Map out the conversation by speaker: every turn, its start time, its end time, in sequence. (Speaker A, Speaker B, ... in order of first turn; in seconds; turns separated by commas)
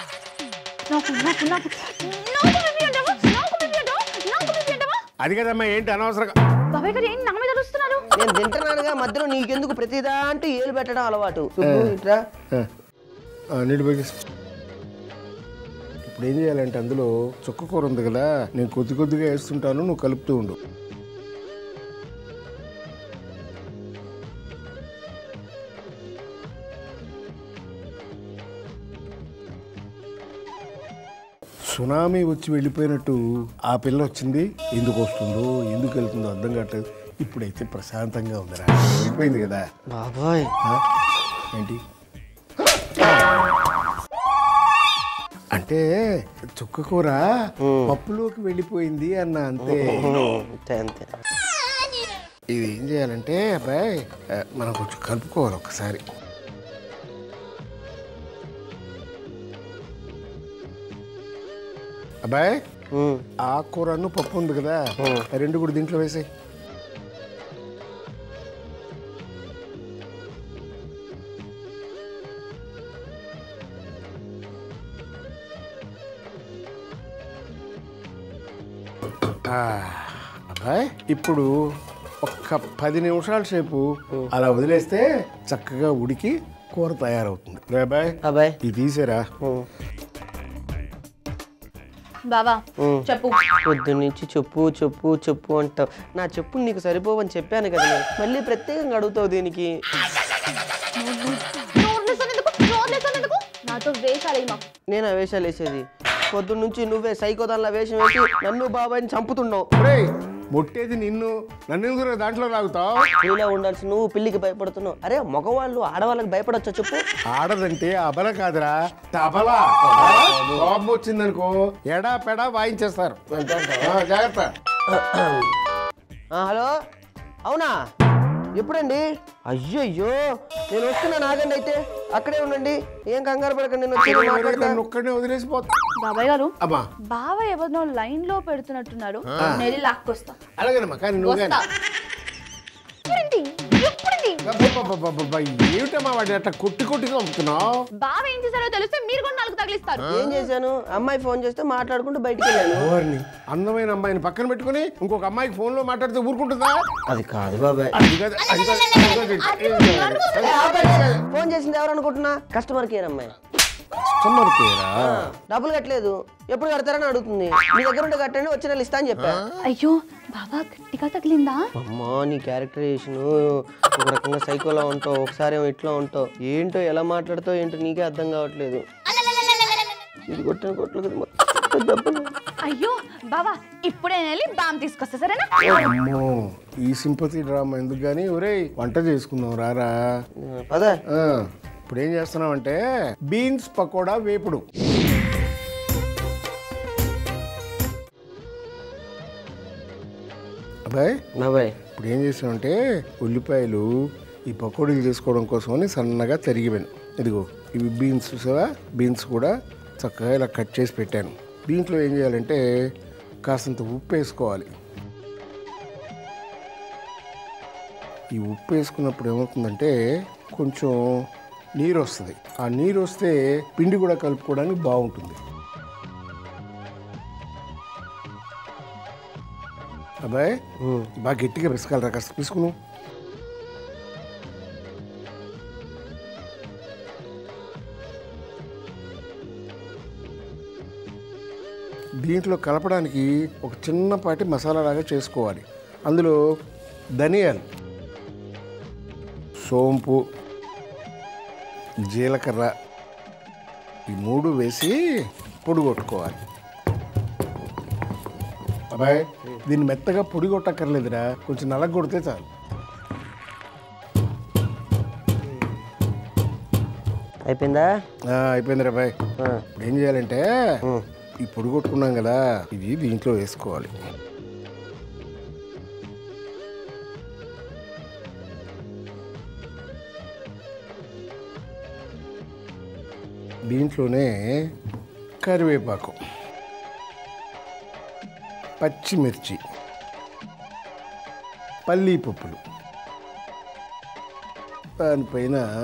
Speaker A: 0.9-5.0, Speaker B: 5.2-6.4, Speaker A: 6.7-8.1, Speaker C: 8.2-12.2, Speaker B: 11.6-12.0, Speaker B: 13.6-14.1, Speaker B: 16.1-20.6, Speaker B: 31.7-39.6, Speaker C: 39.9-40.5, Speaker B: 41.5-41.8, Speaker B: 42.6-43.3, Speaker B: 45.5-45.9, Speaker B: 46.6-47.2, Speaker C: 47.6-48.0, Speaker B: 47.9-50.1, Speaker C: 49.6-51.1, Speaker B: 52.5-56.0, Speaker B: 62.3-62.6, Speaker C: 62.9-63.2, Speaker B: 63.5-66.3, Speaker C: 65.0-65.3, Speaker B: 79.5-81.5, Speaker B: 82.2-89.2, Speaker C: 88.2-88.6, Speaker C: 89.4-89.7, Speaker A: 92.3-93.4, Speaker C: 92.8-93.1, Speaker C: 93.7-99.7, Speaker A: 101.0-104.6, Speaker C: 104.9-109.7, Speaker B: 109.8-113.1, Speaker C: 113.2-117.0, Speaker B: 117.3-123.2, Speaker C: 119.8-120.7, Speaker C: 123.3-124.0, Speaker B: 123.8-124.5, Speaker C: 124.9-125.5, Speaker C: 126.3-126.7, Speaker C: 127.5-127.7, Speaker C: 128.6-134.8, Speaker B: 134.0-135.7, Speaker A: 136.0-136.6, Speaker A: 137.1-140.4, Speaker B: 139.4-139.7, Speaker B: 140.6-141.6, Speaker A: 141.2-141.7, Speaker A: 143.1-144.6, Speaker B: 144.4-147.7, Speaker A: 148.0-150.3, Speaker C: 150.1-152.9, Speaker B: 152.7-156.8, Speaker C: 157.1-158.0, Speaker B: 157.9-161.2, Speaker A: 158.8-161.0, Speaker C: 160.4-163.3, Speaker B: 163.9-165.2, Speaker C: 165.0-169.4, Speaker A: 169.7-171.6, Speaker C: 171.8-178.8, Speaker C: 180.3-182.3, Speaker A: 182.6-185.9, Speaker B: 185.6-189.9, Speaker C: 190.4-191.0, Speaker B: 191.1-194.7, Speaker C: 201.4-201.8, Speaker B: 201.9-203.9, Speaker B: 204.5-212.6, Speaker B: 213.5-214.7, Speaker B: 218.3-219.9, Speaker B: 220.5-221.2, Speaker B: 221.8-225.4, Speaker B: 230.2-230.5, Speaker C: 230.8-231.1, Speaker B: 231.2-232.7, Speaker B: 242.2-246.4, Speaker B: 247.2-247.6, Speaker B: 249.6-250.2, Speaker B: 252.1-252.7, Speaker B: 254.1-255.0, Speaker B: 255.6-256.4, Speaker B: 258.9-262.5, Speaker C: 267.4-267.9, Speaker B: 268.3-269.1, Speaker B: 269.8-270.5, Speaker B: 271.4-273.9, Speaker B: 283.7-284.3, Speaker B: 285.4-286.2, Speaker B: 288.8-289.6, Speaker B: 291.9-292.6, Speaker B: 295.0-295.7